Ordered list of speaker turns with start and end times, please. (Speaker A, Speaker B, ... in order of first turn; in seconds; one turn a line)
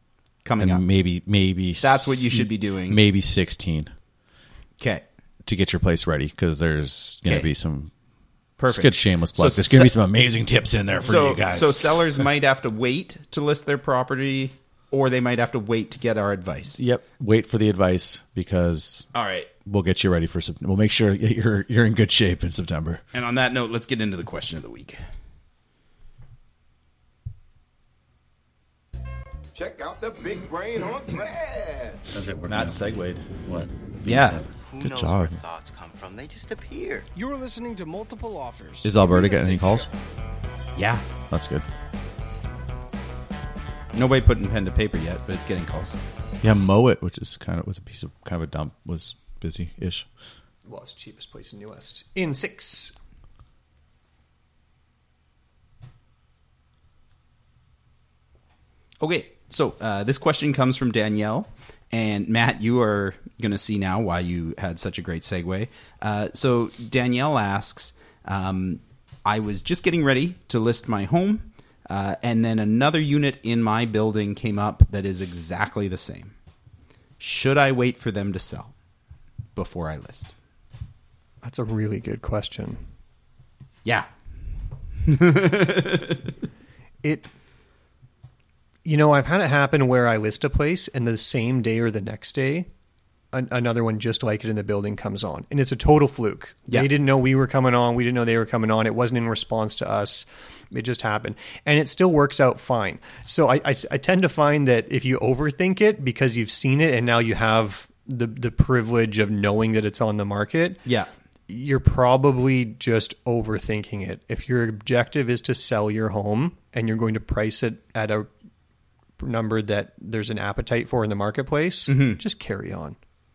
Speaker A: 0.5-0.8
Speaker B: 0.6-3.9
Speaker A: 1.8-3.0
Speaker A: 4.8-5.0
Speaker B: 5.5-7.9
Speaker A: 7.2-7.5
Speaker A: 8.6-9.9
Speaker B: 8.7-12.0
Speaker A: 11.0-16.8
Speaker B: 16.8-19.1
Speaker A: 19.1-19.5
Speaker B: 19.6-23.0
Speaker A: 23.1-25.0
Speaker C: 29.6-32.0
Speaker B: 32.1-35.4
Speaker A: 34.0-34.4
Speaker D: 34.6-37.1
Speaker E: 37.1-39.9
Speaker B: 38.8-39.9
Speaker A: 40.8-41.0
Speaker B: 41.3-41.6
Speaker A: 44.0-46.0
Speaker B: 46.4-50.1
Speaker F: 50.7-52.9
Speaker A: 59.0-76.3
Speaker A: 77.2-78.7
Speaker A: 79.6-80.3
Speaker F: 81.4-82.8
Speaker A: 85.1-86.3
Speaker F: 88.8-92.7
Speaker F: 93.3-110.8
Speaker F: 111.5-118.3
Speaker F: 119.2-123.0
Speaker A: 121.9-122.2